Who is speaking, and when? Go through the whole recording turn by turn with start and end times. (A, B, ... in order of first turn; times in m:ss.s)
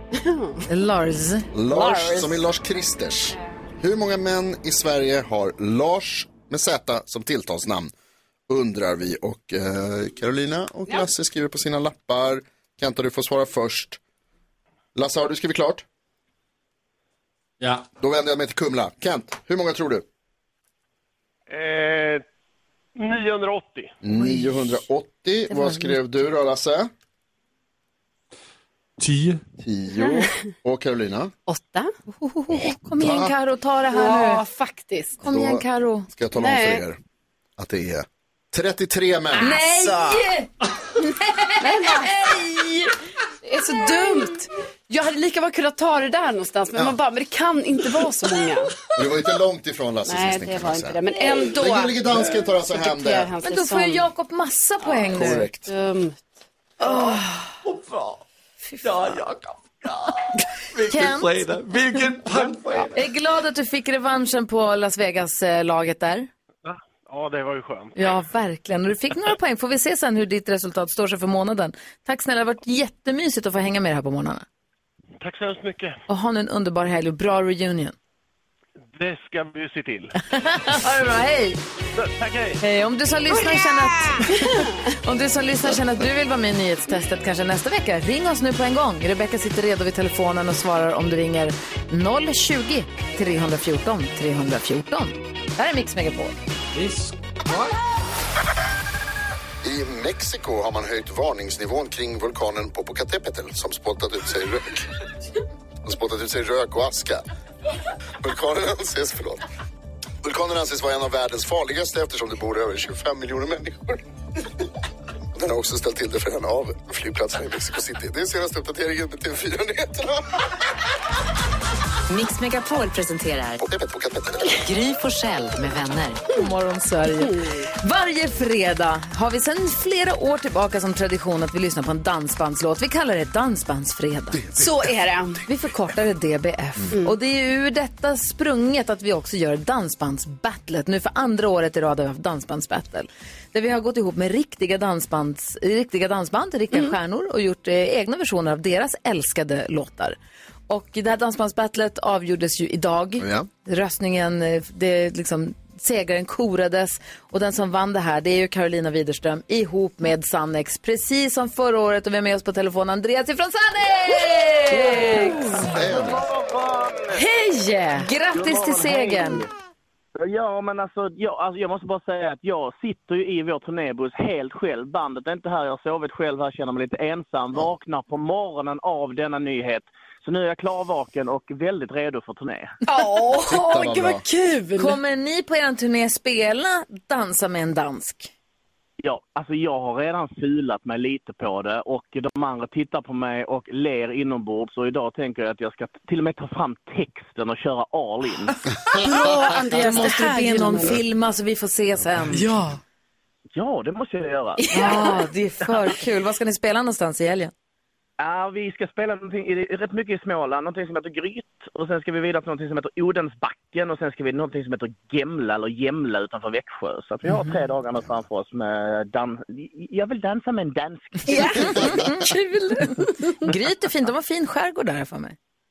0:00.1-0:00.6 A
0:00.7-0:01.5 B
0:01.5-0:07.9 C
0:01.7-0:02.3 A
0:08.5-0:14.0 C
0:14.9-0:15.8 C
0:17.6-0:17.9 D
0:18.0-0:20.0 C
0:21.5-0:22.2 E
0:23.0-0:23.9 E
0:24.0-0:26.9 C
0:25.5-0:26.0 B
0:29.0-0:29.4 D
0:29.6-0:31.3 C
0:31.5-0:31.9 A
0:32.1-0:34.4 B
0:33.0-0:33.3 C
0:33.9-0:35.2 A
0:35.2-0:36.1 B
0:35.2-0:37.0 C
0:36.4-0:36.8 A
0:37.6-0:39.5 C
0:39.3-0:40.2 A
0:39.4-0:42.9 B
0:41.6-0:42.1 A
0:43.4-0:48.7 A
0:48.9-0:53.3 C
0:50.0-0:52.0 A
0:52.6-0:54.0 A
0:53.4-0:55.5 B
0:55.1-0:55.7 C
0:55.7-0:56.2 A
0:56.8-0:57.3 A
0:56.8-0:58.2 D
0:58.7-0:59.2 B
0:58.8-1:03.1 D
1:00.8-1:01.4 B
1:02.9-1:06.3 B
1:06.6-1:08.0 E
1:08.0-1:14.4 B
1:15.2-1:16.0 E
1:16.1-1:17.9 B
1:18.9-1:20.2 E
1:20.3-1:21.6 B
1:21.9-1:22.6 E
1:22.6-1:36.4 B
1:23.3-1:24.8 A
1:36.7-1:37.8 D
1:39.6-1:44.8 C
1:45.8-1:47.2 C
1:48.2-1:49.4 C
1:50.2-1:54.0 C
1:55.3-2:00.2 C
2:02.1-2:03.6 F
2:03.6-2:04.5 C
2:04.6-2:06.2 F
2:06.4-2:14.4 B
2:07.2-2:07.6 A
2:14.5-2:15.4 A
2:15.4-2:30.2 B
2:30.7-2:45.7 B
2:33.2-2:33.5 C
2:45.7-2:46.3 C
2:45.9-2:47.2 G
2:47.2-2:49.4 B
2:48.3-2:49.4 G
2:50.2-3:02.7 G
3:02.8-3:05.0 A
3:03.5-3:04.2 C
3:04.8-3:08.3 B
3:09.0-3:18.5 G
3:18.9-3:21.0 A
3:19.0-3:22.5 B
3:22.3-3:22.8 A
3:23.5-3:25.0 G
3:24.6-3:25.1 A
3:24.7-3:27.5 B
3:28.2-3:41.5 G
3:37.2-3:37.5 B
3:41.2-3:43.1 A
3:41.3-3:42.3 B
3:43.4-3:45.4 B